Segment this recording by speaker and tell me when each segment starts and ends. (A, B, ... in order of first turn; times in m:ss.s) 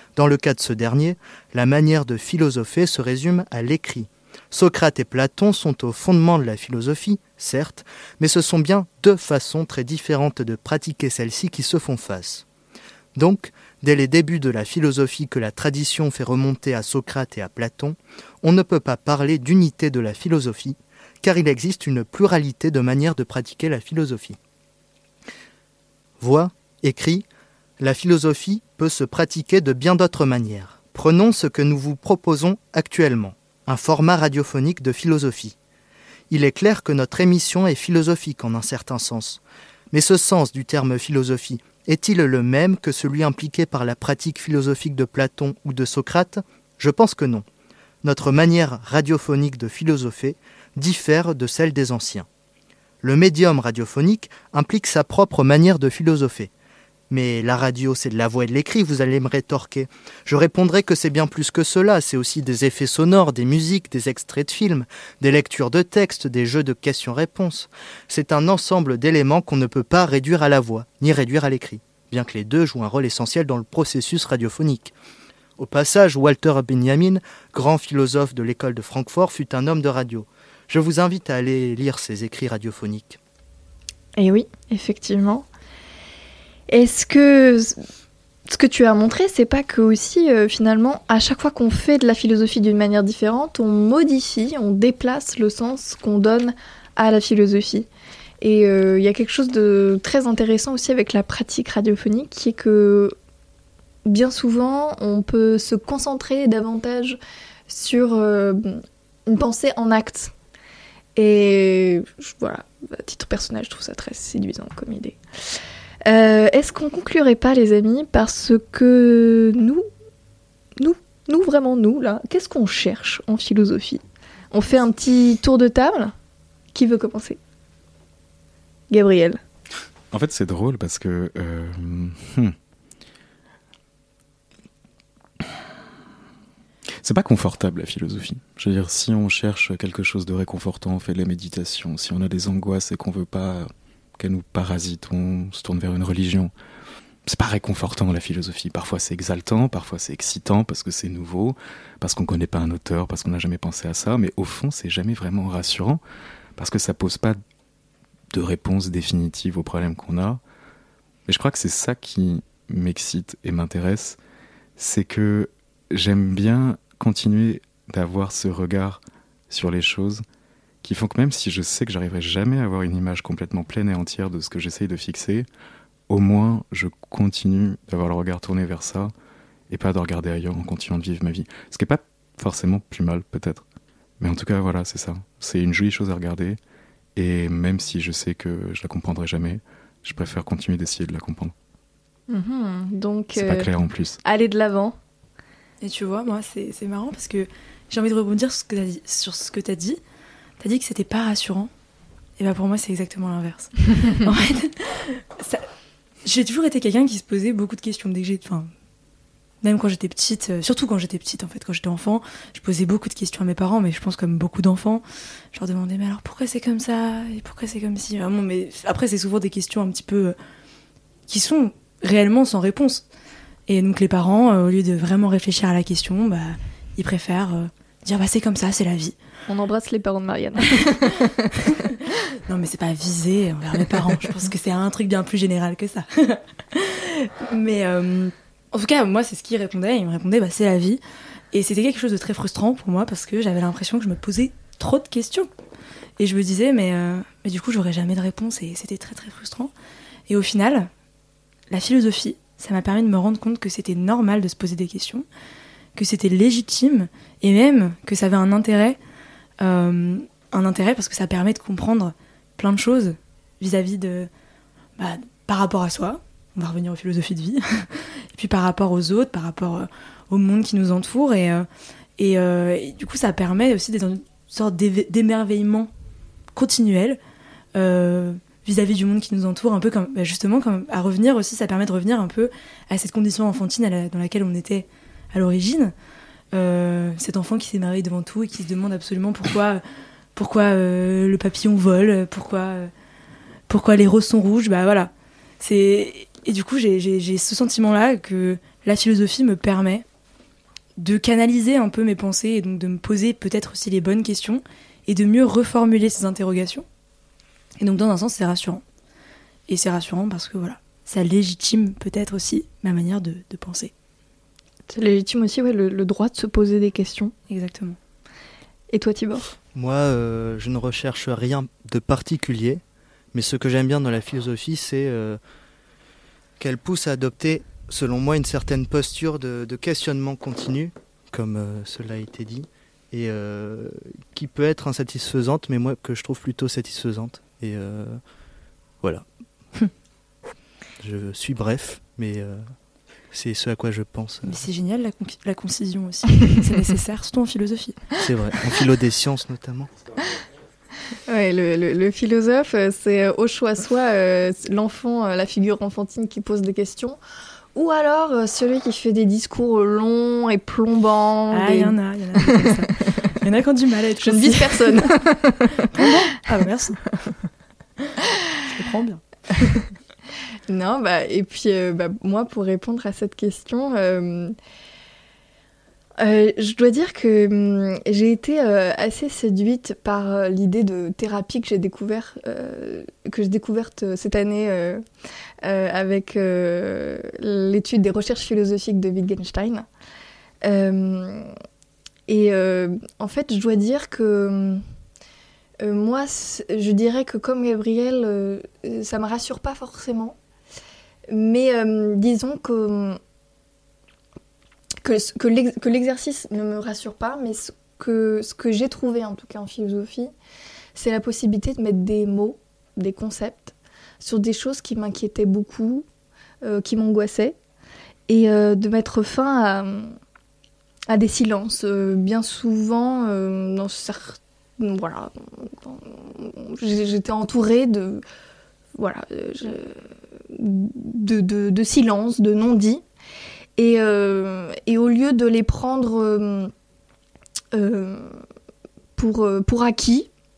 0:00.2-0:12.4 A
0:13.2-0:24.4 A
0:26.2-0:27.2 A
0:27.8-0:35.6 A
0:36.3-0:47.4 A
0:48.0-0:52.3 A
0:53.0-0:56.5 A
0:57.1-1:14.9 A
1:15.6-1:23.2 A
1:24.2-1:25.5 B
1:26.7-1:27.8 B
1:28.5-1:37.9 B
1:38.4-1:43.2 B
1:44.0-1:50.3 B
1:51.2-1:55.2 B
1:56.0-1:59.8 B
2:00.8-2:06.1 B
2:06.7-2:07.4 B
2:08.9-2:09.4 B
2:10.1-2:12.6 C
2:17.0-2:26.5 C
2:27.3-2:36.0 C
2:36.6-2:37.4 C
2:38.3-2:40.4 C
2:41.3-2:44.2 C
2:44.8-2:50.2 C
2:50.8-2:55.5 C
2:56.1-2:59.1 C
2:59.7-3:03.6 C
3:04.2-3:06.6 C
3:07.2-3:11.5 C
3:12.3-3:13.7 B
3:13.4-3:14.2 C
3:14.2-3:15.0 B
3:15.8-3:20.0 D
3:20.6-3:21.7 D
3:22.4-3:25.7 D
3:26.2-3:28.7 D
3:29.6-3:40.4 D
3:41.3-3:43.0 D
3:43.7-3:49.2 D
3:49.5-3:51.3 B
3:52.5-4:01.0 D
4:01.5-4:05.5 D
4:06.2-4:09.7 D
4:10.3-4:10.9 D
4:11.7-4:15.2 D
4:16.0-4:19.0 D
4:19.6-4:24.3 D
4:25.0-4:31.7 D
4:32.2-4:35.9 D
4:36.6-4:37.2 D
4:37.8-4:45.9 D
4:46.5-4:49.8 D
4:50.4-4:52.9 D
4:53.7-5:00.0 D
5:01.0-5:06.9 D
5:07.8-5:08.8 D
5:09.7-5:13.9 D
5:14.9-5:17.3 B
5:17.5-5:18.0 D
5:18.9-5:19.5 B
5:19.7-5:22.8 A
5:23.3-5:25.4 A
5:26.6-5:38.2 A
5:41.0-5:42.6 A
5:43.3-5:44.6 A
5:44.4-5:48.1 D
5:48.2-5:50.0 A
5:51.3-5:57.2 B
5:57.7-6:02.7 B
6:01.5-6:05.2 D
6:04.2-6:06.1 B
6:05.8-6:07.1 D
6:08.6-6:09.2 D
6:10.7-6:14.6 B
6:16.2-6:25.0 B
6:25.6-6:29.9 B
6:30.6-6:31.5 B
6:32.3-6:34.8 B
6:35.8-6:40.4 B
6:41.3-6:43.2 B
6:45.0-6:50.3 B
6:51.0-6:56.0 B
6:56.6-6:57.6 B
6:58.3-7:00.2 B
7:01.1-7:08.2 B
7:09.0-7:10.0 B
7:10.5-7:13.0 B
7:13.8-7:16.7 B
7:17.7-7:18.4 B
7:19.2-7:20.3 B